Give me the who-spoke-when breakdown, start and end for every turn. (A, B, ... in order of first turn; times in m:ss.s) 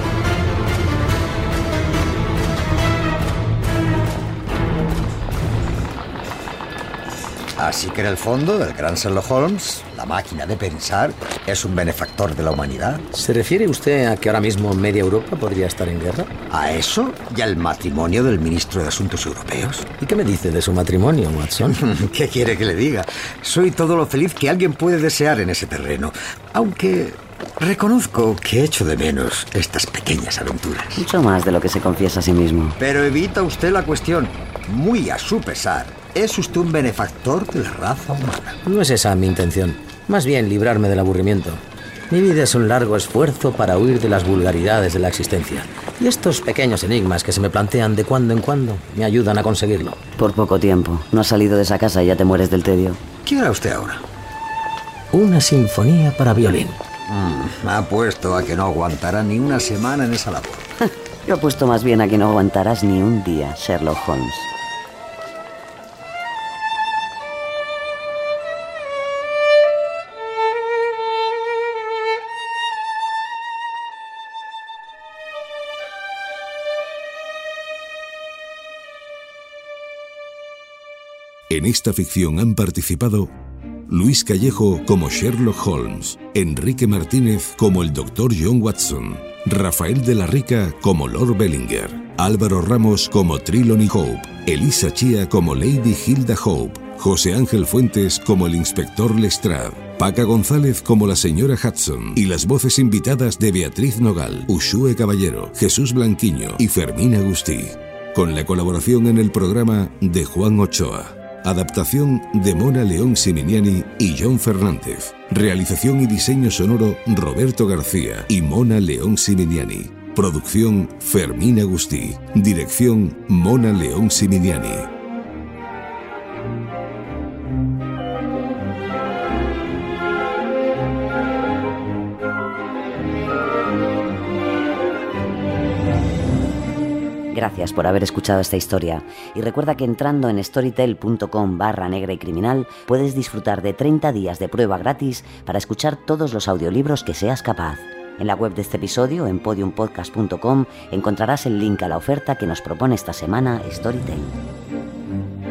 0:07.6-0:13.0 A
0:13.1-0:16.3 B
0:16.5-0:19.9 A
0:20.0-0:21.8 B
0:21.7-0:31.0 A
0:31.0-0:32.8 C
0:32.8-0:38.6 A
0:38.6-0:50.0 B
0:50.2-0:53.0 C
0:53.2-0:54.0 A
0:55.1-0:56.8 B
0:57.1-1:00.7 A
1:01.3-1:04.5 C
1:21.5-1:23.3 D
1:23.9-2:04.9 D
2:17.3-2:34.4 C